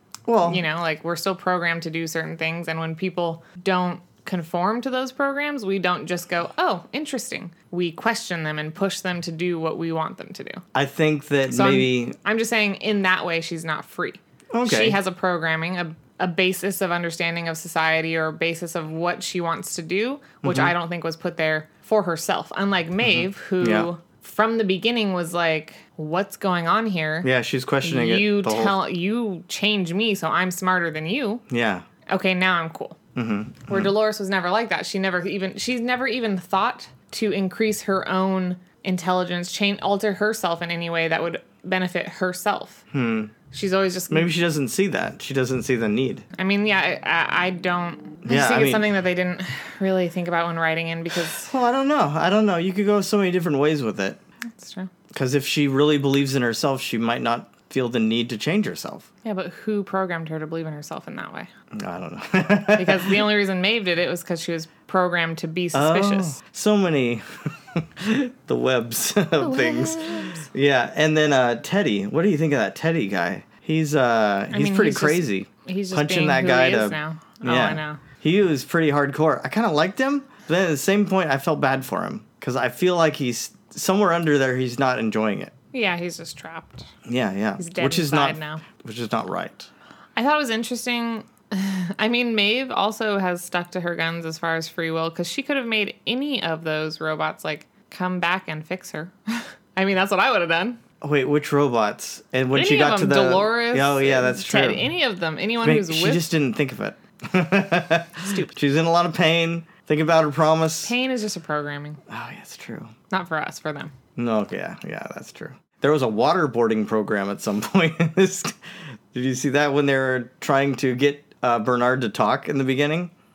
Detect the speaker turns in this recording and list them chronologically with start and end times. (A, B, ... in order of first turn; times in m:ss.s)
0:00.3-0:00.6 A
0:00.4-0:10.6 B
0:10.7-0:12.2 A
0:11.5-0:27.3 B
0:14.5-0:15.0 A
0:20.4-0:20.7 A
0:23.0-0:23.9 A
0:27.2-0:28.8 A
0:27.8-0:31.4 B
0:31.5-0:31.9 A
0:32.1-0:33.0 B
0:33.2-0:33.9 A
0:33.7-0:42.8 B
0:42.9-0:43.3 A
0:43.5-0:44.3 B
0:44.1-0:46.2 A
0:46.4-0:51.5 B
0:48.2-0:48.9 A
0:51.4-0:54.2 A
0:54.6-0:54.9 B
0:55.1-0:59.1 A
0:59.2-1:01.5 B
1:01.8-1:03.2 A
1:02.8-1:06.4 B
1:05.7-1:25.5 A
1:09.4-1:10.4 B
1:14.5-1:18.0 B
1:25.7-1:26.9 B
1:27.1-1:29.7 A
1:27.6-1:28.6 B
1:30.2-1:40.8 B
1:41.0-1:44.8 A
1:42.5-1:46.3 B
1:45.6-1:50.9 A
1:48.2-1:48.5 B
1:50.8-1:52.0 B
1:52.1-1:52.9 A
1:53.1-1:53.9 B
1:54.2-1:58.6 A
1:59.1-2:03.1 A